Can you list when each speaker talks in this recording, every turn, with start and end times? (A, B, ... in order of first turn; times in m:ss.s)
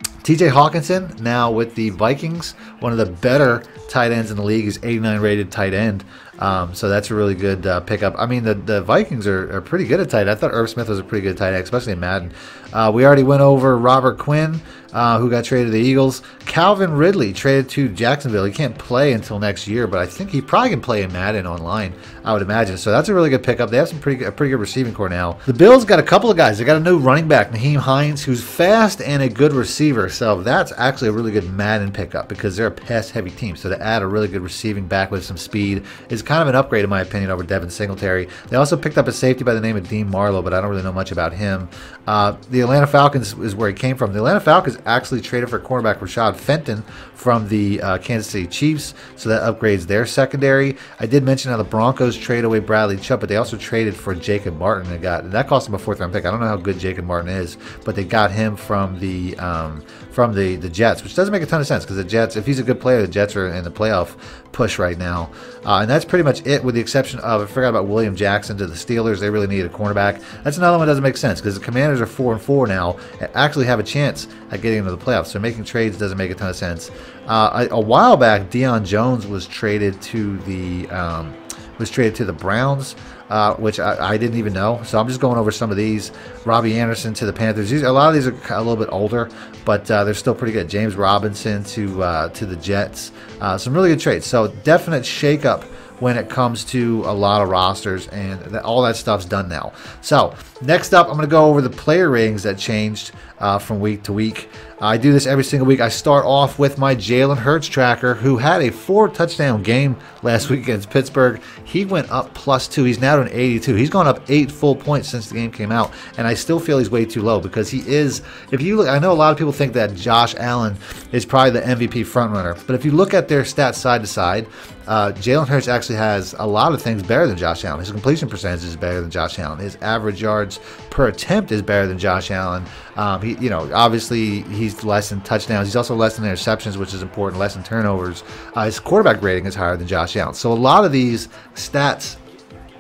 0:00.2-2:22.2 A